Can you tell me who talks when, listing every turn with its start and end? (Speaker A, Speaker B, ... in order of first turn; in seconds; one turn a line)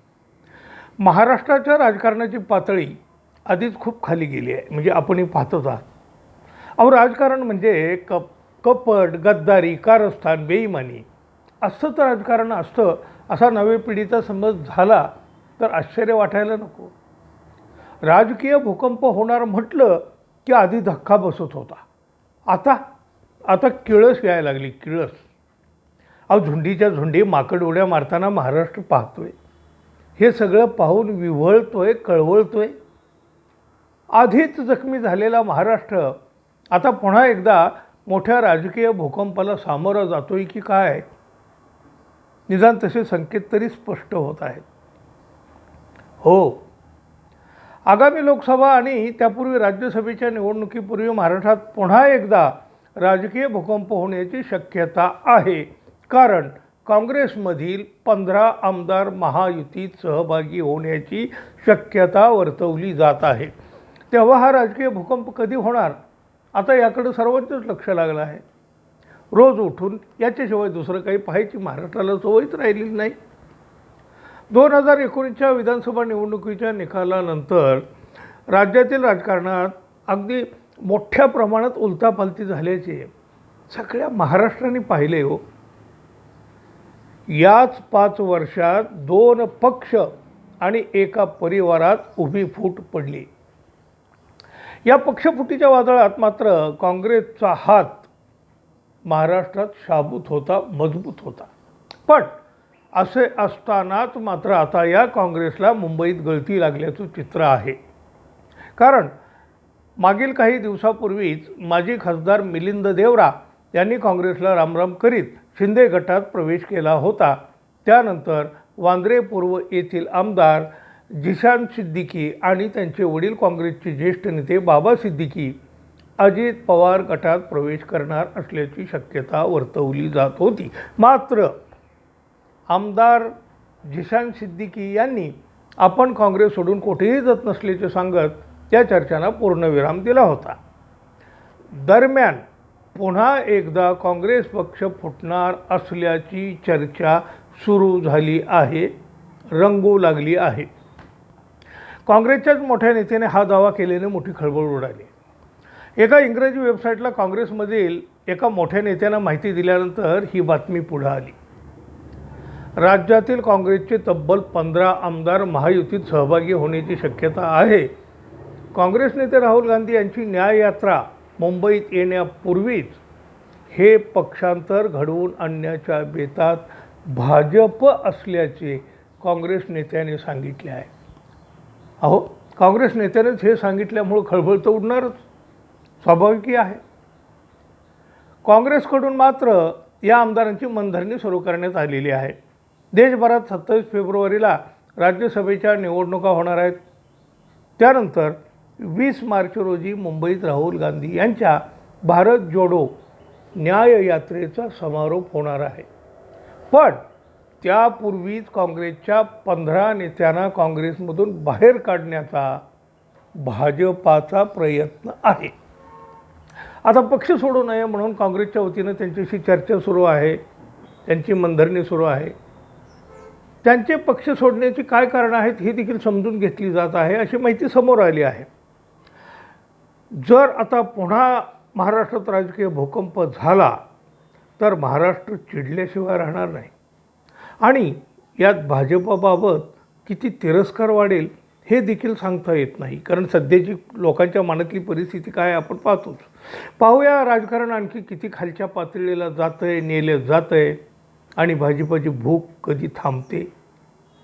Speaker A: 1.0-5.9
Speaker A: 6.8-11.1
Speaker A: 11.6-16.9
Speaker A: 18.1-21.8
Speaker A: 22.5-22.8
Speaker A: 23.5-25.2
Speaker A: 26.3-29.3
Speaker A: 30.2-32.7
Speaker A: 34.1-36.2
Speaker A: 36.7-41.1
Speaker A: 42.5-44.6
Speaker A: 46.2-46.6
Speaker A: 47.9-63.5
Speaker A: 64.1-66.0
Speaker A: 66.5-68.4
Speaker A: 69.3-73.2
Speaker A: 74.5-77.9
Speaker A: 78.5-83.1
Speaker A: 83.7-85.4
Speaker A: 87.3-90.1
Speaker A: 90.6-93.3
Speaker A: 94.8-98.1
Speaker A: 99.1-101.5
Speaker A: 102.1-102.4
Speaker A: 102.9-107.8
Speaker A: 108.8-109.1
Speaker A: 110.0-125.5
Speaker A: 126.2-131.6
Speaker A: 132.7-133.3
Speaker A: 133.8-140.6
Speaker A: 141.7-142.4
Speaker A: 142.9-148.9
Speaker A: 149.5-150.7
Speaker A: 152.1-155.1
Speaker A: 156.0-161.3
Speaker A: 162.8-167.9
Speaker A: 168.7-173.0
Speaker A: 173.7-180.9
Speaker A: 182.0-185.2
Speaker A: 186.0-186.8
Speaker A: 188.4-192.3
Speaker A: 192.9-196.8
Speaker A: 197.8-202.9
Speaker A: 203.6-205.9
Speaker A: 206.7-207.0
Speaker A: 207.6-212.6
Speaker A: 213.3-215.5
Speaker A: 216.8-220.4
Speaker A: 221.1-222.3
Speaker A: 223.6-228.5
Speaker A: 230.1-233.8
Speaker A: 234.6-236.7
Speaker A: 237.6-250.8
Speaker A: 251.4-253.5